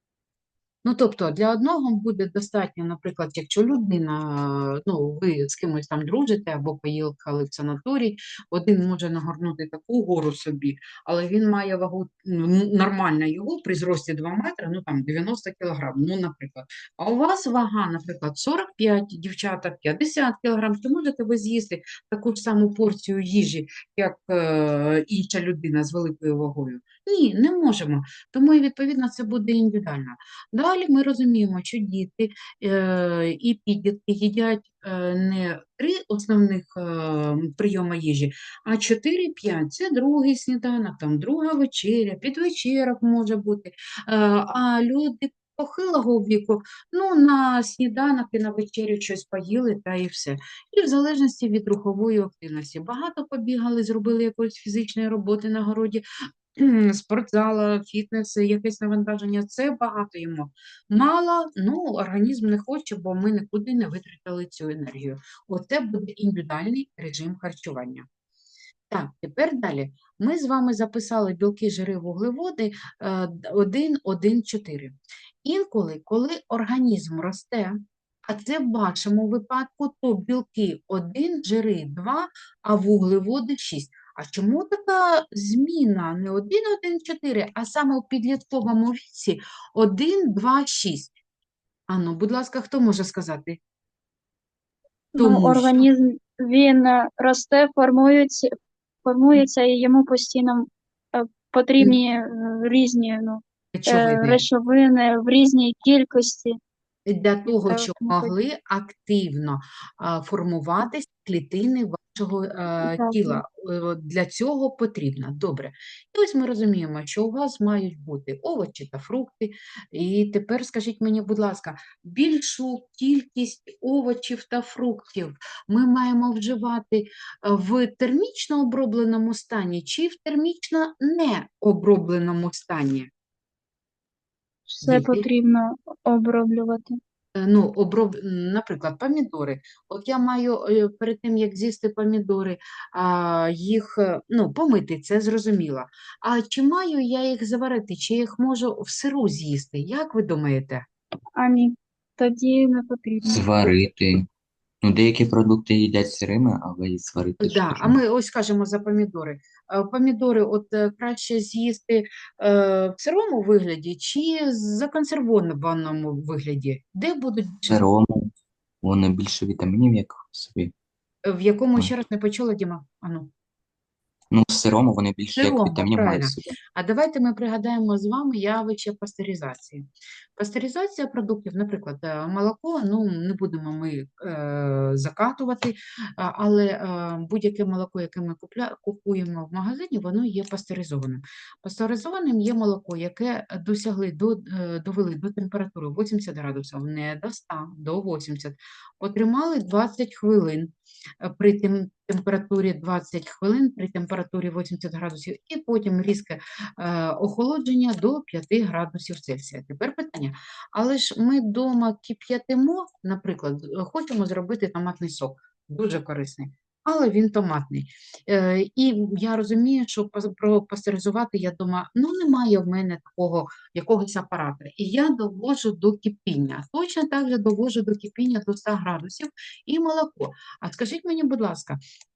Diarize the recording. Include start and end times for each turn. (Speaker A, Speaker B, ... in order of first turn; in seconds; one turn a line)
Speaker A: 0.8-56.0
Speaker A: 56.6-68.1
Speaker A: 68.9-91.1
Speaker A: 91.9-93.6
Speaker B: 95.2-98.5
Speaker A: 95.2-95.9
Speaker B: 99.0-106.6
Speaker A: 103.7-104.5
Speaker A: 107.1-133.1
Speaker B: 107.5-108.3
Speaker B: 112.8-113.4
Speaker B: 134.7-137.0
Speaker A: 134.8-135.3
Speaker A: 137.3-150.8
Speaker B: 151.3-153.7
Speaker C: 153.3-154.3
Speaker C: 154.8-158.0
Speaker A: 157.4-167.9
Speaker C: 167.7-168.3
Speaker C: 168.8-170.7
Speaker A: 171.3-173.3
Speaker C: 174.3-176.6
Speaker A: 175.3-231.8